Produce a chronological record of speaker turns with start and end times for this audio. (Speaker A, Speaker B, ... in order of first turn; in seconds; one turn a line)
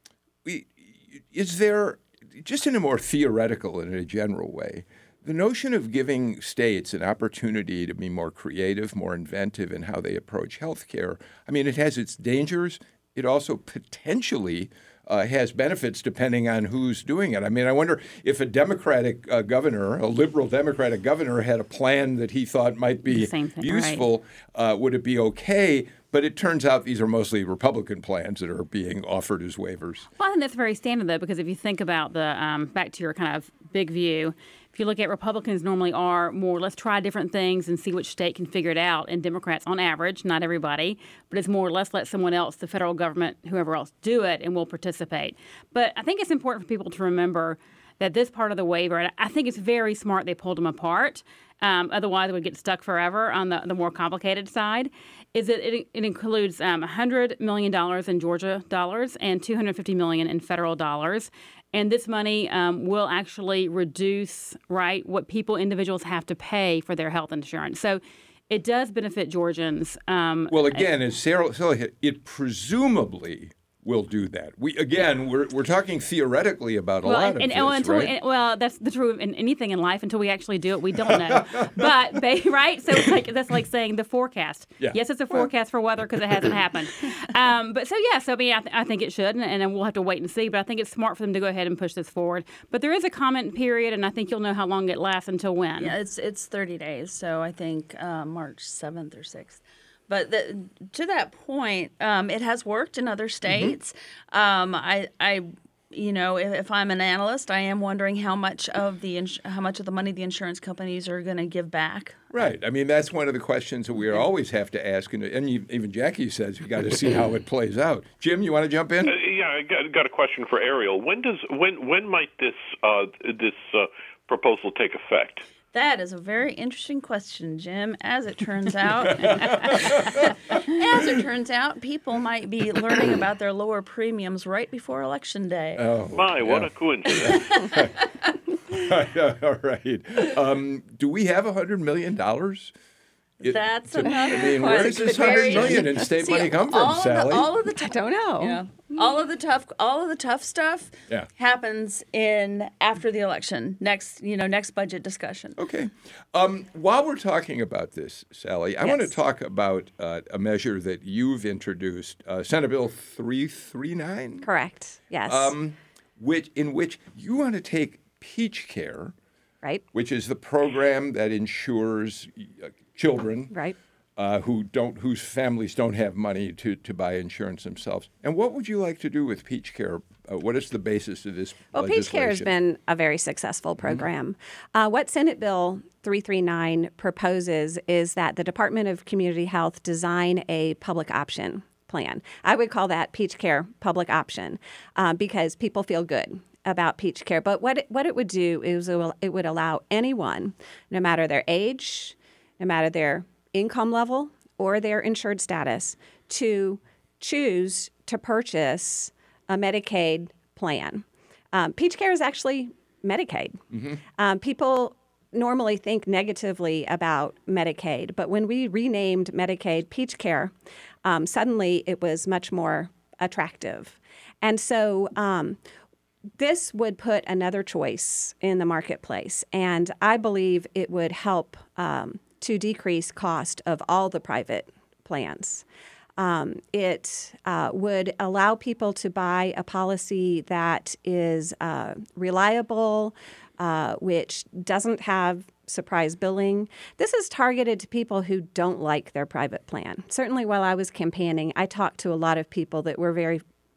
Speaker A: 0.4-30.1
Speaker B: 23.1-24.0
Speaker B: 30.2-70.8
Speaker A: 70.5-78.1
Speaker B: 77.0-95.9
Speaker A: 81.0-81.9
Speaker A: 84.8-85.5
Speaker C: 95.8-112.3
Speaker A: 103.5-103.7
Speaker A: 112.3-119.2
Speaker D: 119.0-125.5
Speaker C: 125.7-135.8
Speaker A: 129.0-130.8
Speaker A: 135.8-137.9
Speaker D: 136.1-137.8
Speaker C: 137.5-137.8
Speaker A: 138.7-142.7
Speaker C: 143.4-155.6
Speaker A: 143.4-147.5
Speaker E: 144.1-146.3
Speaker E: 147.8-149.0
Speaker A: 155.6-164.5
Speaker E: 164.4-165.5
Speaker A: 165.2-169.1
Speaker A: 169.9-173.5
Speaker E: 173.5-173.8
Speaker A: 174.2-182.5
Speaker E: 181.7-213.6
Speaker A: 213.7-214.0
Speaker E: 214.2-220.5
Speaker E: 221.0-225.6
Speaker E: 226.4-235.6
Speaker E: 236.2-253.4